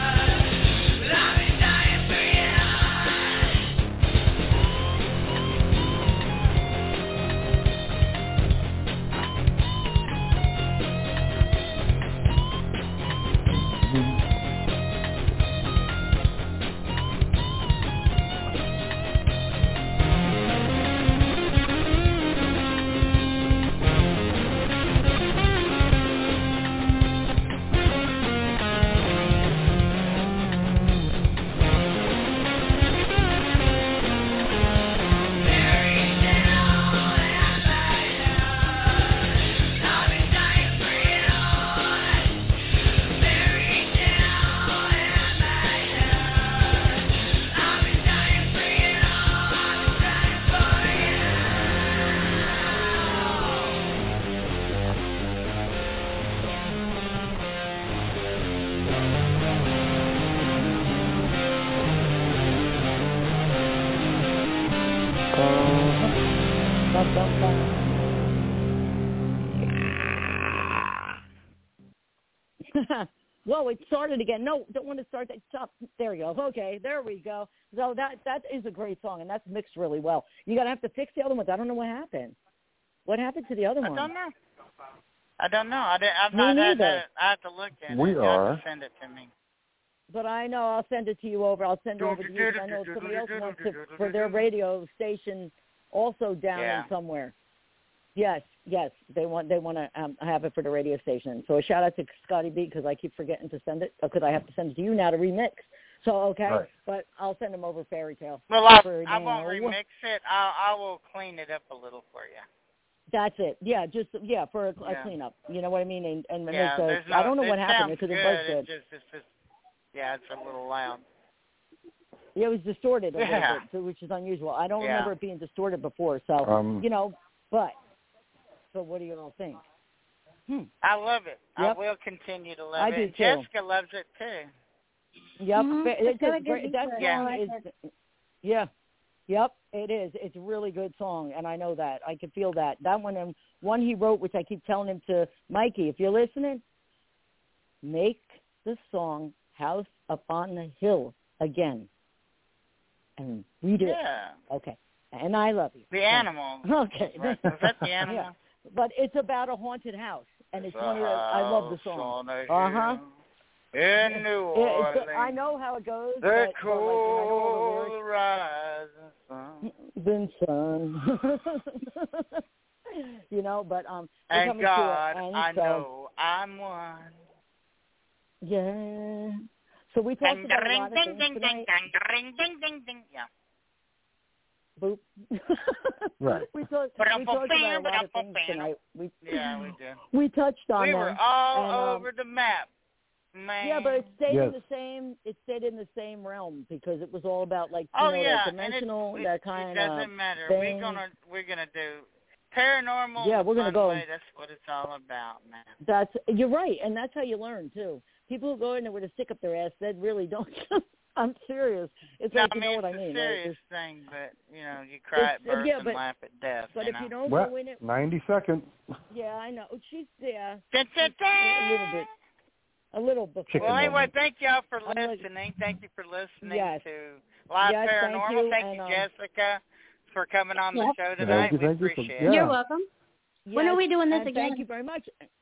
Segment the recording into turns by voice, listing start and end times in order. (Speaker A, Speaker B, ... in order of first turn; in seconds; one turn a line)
Speaker A: 65.3-66.1
Speaker B: 66.9-67.8
Speaker B: 72.7-82.4
Speaker B: 83.1-84.1
Speaker C: 83.8-84.3
Speaker C: 85.4-89.3
Speaker B: 86.3-87.0
Speaker A: 87.9-88.6
Speaker B: 90.1-97.3
Speaker C: 92.0-94.5
Speaker C: 96.5-96.9
Speaker B: 98.1-109.8
Speaker C: 108.5-112.5
Speaker B: 113.1-118.7
Speaker C: 114.8-115.1
Speaker C: 116.5-119.3
Speaker C: 119.9-121.0
Speaker B: 122.3-127.7
Speaker C: 123.2-123.6
Speaker C: 124.8-125.1
Speaker A: 126.4-126.8
Speaker B: 128.7-129.6
Speaker C: 130.8-134.5
Speaker B: 132.8-133.4
Speaker B: 135.4-137.7
Speaker D: 135.5-137.6
Speaker C: 137.0-137.4
Speaker B: 138.4-138.7
Speaker B: 139.3-146.6
Speaker B: 147.8-151.9
Speaker B: 153.2-157.5
Speaker C: 153.8-154.4
Speaker C: 155.9-158.3
Speaker B: 158.1-163.0
Speaker C: 160.6-163.1
Speaker C: 163.7-165.5
Speaker B: 164.1-167.9
Speaker C: 166.2-169.7
Speaker B: 169.6-172.4
Speaker B: 172.9-175.9
Speaker C: 174.3-177.2
Speaker B: 178.4-181.7
Speaker C: 180.2-183.3
Speaker B: 184.8-189.5
Speaker A: 186.2-186.5
Speaker C: 187.0-188.7
Speaker C: 189.2-190.0
Speaker B: 190.1-192.1
Speaker C: 190.8-192.7
Speaker C: 193.3-194.0
Speaker B: 193.6-201.0
Speaker A: 194.3-194.6
Speaker C: 197.9-205.7
Speaker B: 203.2-204.0
Speaker B: 205.8-213.6
Speaker C: 212.3-217.1
Speaker B: 215.2-216.0
Speaker B: 216.7-217.8
Speaker A: 217.3-218.7
Speaker B: 219.1-222.1
Speaker C: 220.7-222.1
Speaker B: 222.9-224.0
Speaker A: 223.5-224.1
Speaker C: 223.6-232.3
Speaker B: 224.8-225.2
Speaker B: 226.4-226.8
Speaker B: 227.6-229.1
Speaker A: 231.2-232.5
Speaker B: 232.3-232.6
Speaker D: 232.3-232.9
Speaker B: 233.5-235.1
Speaker D: 233.5-234.6